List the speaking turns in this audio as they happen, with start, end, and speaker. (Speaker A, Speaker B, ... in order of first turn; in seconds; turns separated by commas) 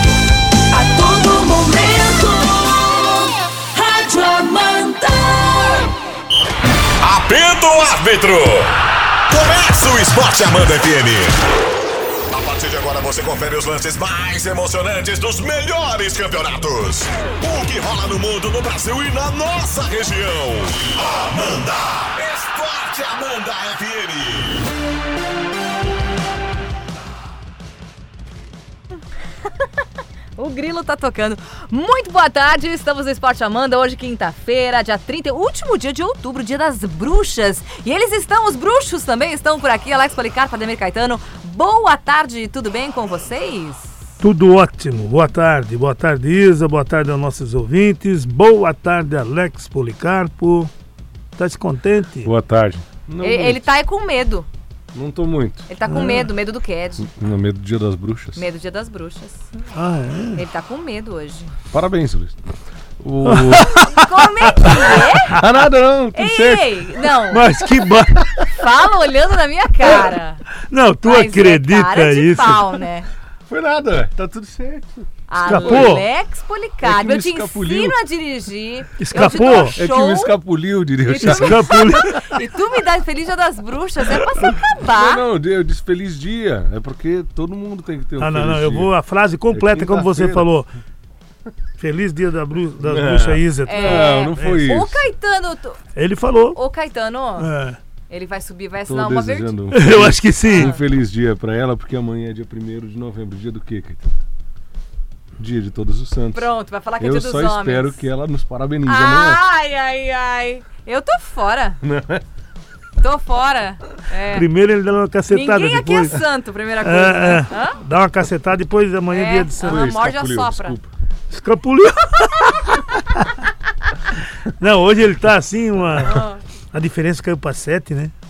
Speaker A: 0.7-5.9, Speaker B: 7.0-8.8, Speaker B: 9.3-11.4, Speaker B: 12.3-24.6, Speaker C: 30.4-43.9, Speaker D: 44.2-50.7, Speaker D: 51.4-52.3, Speaker E: 52.2-53.6, Speaker C: 53.2-54.5, Speaker E: 54.9-55.7, Speaker C: 55.7-57.1, Speaker D: 55.9-56.3, Speaker E: 57.0-58.5, Speaker C: 58.4-59.5, Speaker D: 59.7-60.4, Speaker C: 60.4-61.5, Speaker E: 61.7-62.4, Speaker E: 63.0-64.0, Speaker D: 63.2-65.0, Speaker C: 63.8-65.4, Speaker E: 64.7-67.0, Speaker C: 66.2-67.5, Speaker D: 67.3-68.4, Speaker E: 67.8-68.2, Speaker C: 68.5-70.4, Speaker D: 70.7-72.8, Speaker C: 71.0-73.1, Speaker E: 73.5-76.0, Speaker C: 75.3-80.4, Speaker D: 75.4-76.1, Speaker E: 76.8-78.0, Speaker D: 79.0-79.8, Speaker E: 79.2-82.2, Speaker C: 81.1-85.2, Speaker D: 81.2-82.3, Speaker E: 84.1-88.9, Speaker D: 88.2-90.7, Speaker E: 89.5-90.5, Speaker D: 91.8-94.4, Speaker E: 92.8-95.1, Speaker C: 93.7-95.8, Speaker D: 96.0-96.6, Speaker C: 96.5-97.5, Speaker D: 97.4-97.8, Speaker C: 98.1-99.6, Speaker E: 98.8-104.1, Speaker D: 99.7-100.7, Speaker C: 100.5-100.8, Speaker E: 105.4-109.4, Speaker C: 106.3-108.0, Speaker C: 108.8-111.8, Speaker E: 111.8-112.2, Speaker C: 113.0-114.5, Speaker D: 114.3-116.2, Speaker C: 115.3-117.8, Speaker D: 116.8-119.9, Speaker C: 119.1-120.8, Speaker E: 119.6-120.9, Speaker D: 121.3-122.8, Speaker D: 124.6-128.1, Speaker C: 126.0-126.4